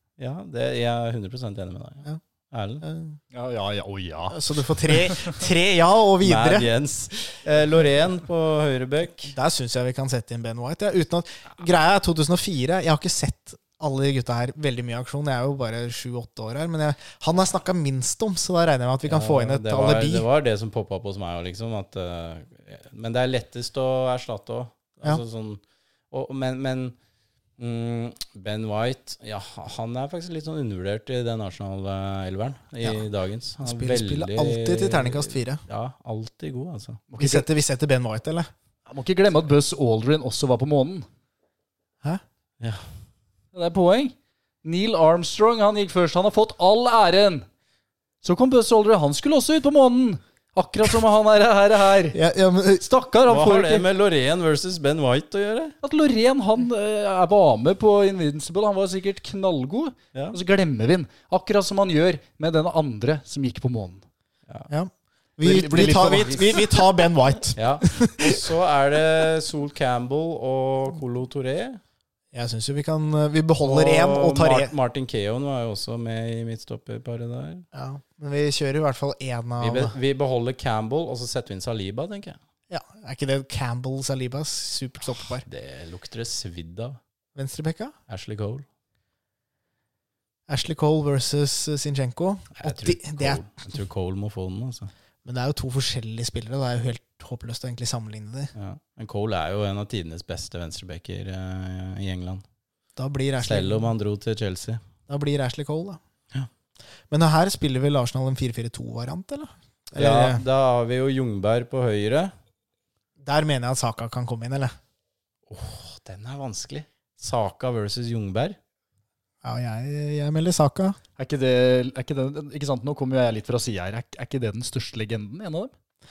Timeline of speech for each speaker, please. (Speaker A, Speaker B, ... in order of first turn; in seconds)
Speaker A: 0.2-2.9, 6.2-9.3, 19.1-27.0, 27.6-37.0, 53.3-55.8, 67.6-71.8, 73.6-77.7, 79.6-82.4, 85.4-87.0, 88.1-88.7, 92.6-94.9, 98.5-102.4, 103.4-104.8, 110.0-112.3, 115.5-118.6
Speaker B: 2.8-3.2, 4.3-6.7, 9.2-20.3, 33.6-35.6, 37.2-38.5, 52.1-52.8, 64.7-68.5, 72.3-74.7, 77.7-79.9, 82.7-85.5, 87.3-88.0, 90.5-93.4, 95.2-98.5, 103.0-103.9, 105.1-106.0, 107.1-110.4, 113.2-114.8, 119.4-121.0
Speaker C: 3.3-4.4, 37.1-37.5, 38.9-41.1, 43.5-47.5, 48.2-52.2, 52.8-53.9, 55.8-64.0, 65.4-66.7, 121.2-125.7